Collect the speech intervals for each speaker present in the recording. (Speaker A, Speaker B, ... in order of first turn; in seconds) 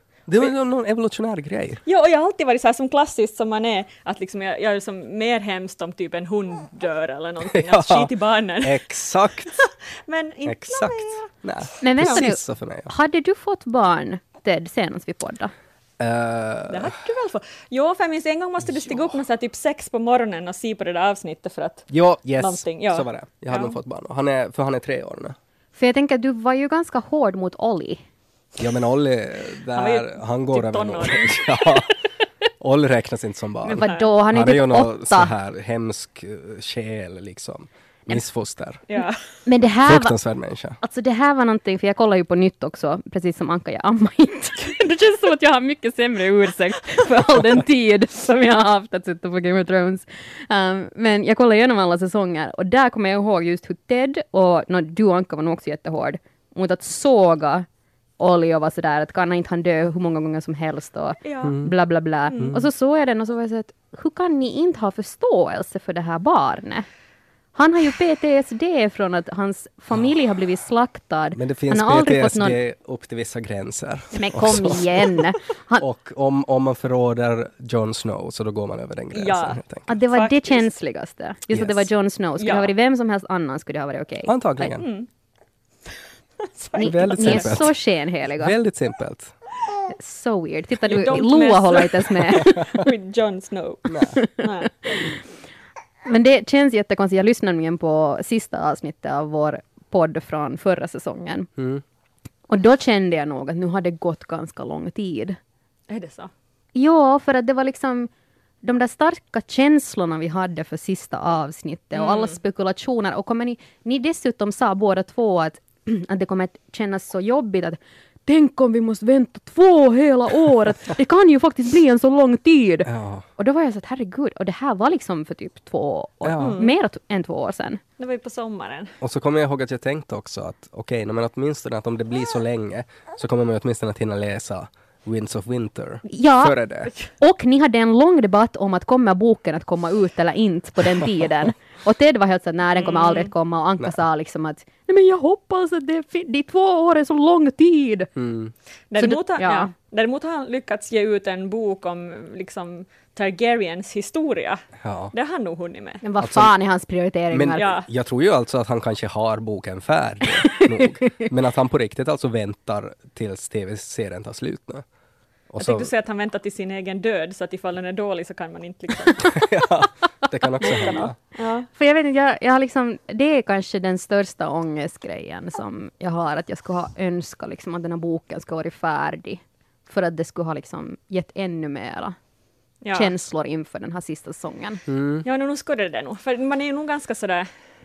Speaker A: 0.3-1.8, 7.5-8.1, 8.6-9.6, 10.4-12.9, 16.0-16.9, 18.9-19.1, 21.9-25.4, 28.6-31.9, 32.6-38.8, 39.9-40.8, 61.4-61.7, 62.4-62.7, 71.3-75.2, 75.8-79.9, 81.5-81.9, 84.3-84.9, 86.8-87.7, 88.3-89.3, 93.9-94.2, 101.6-101.8, 122.8-123.3, 126.2-126.6, 129.0-136.9, 148.2-148.5, 154.8-155.1, 156.2-156.5, 157.3-164.8, 165.5-165.9, 169.3-171.2, 184.9-185.2
Speaker B: 1.9-11.3, 12.0-12.3, 16.7-23.8, 29.7-31.9, 38.9-39.2, 61.2-61.6, 79.1-80.7, 82.4-82.7, 84.8-85.1, 86.5-87.7, 90.8-94.7, 105.9-106.3, 112.0-112.4, 126.4-126.7, 128.0-128.9, 142.8-143.3, 148.9-156.0, 157.6-157.9, 165.6-169.4, 170.6-171.7, 182.8-183.1, 185.2-187.5
Speaker C: 11.8-15.5, 25.8-28.0, 33.6-35.3, 39.0-40.1, 40.8-57.7, 58.2-66.9, 67.5-72.6, 74.2-75.8, 79.9-84.8, 86.8-88.5, 89.9-92.7, 94.2-95.2, 96.1-101.5, 102.5-105.4, 106.8-108.1, 108.6-127.8, 136.1-136.6, 137.2-148.1, 149.0-149.7, 156.0-157.7, 170.7-171.0, 171.7-182.2, 182.9-184.8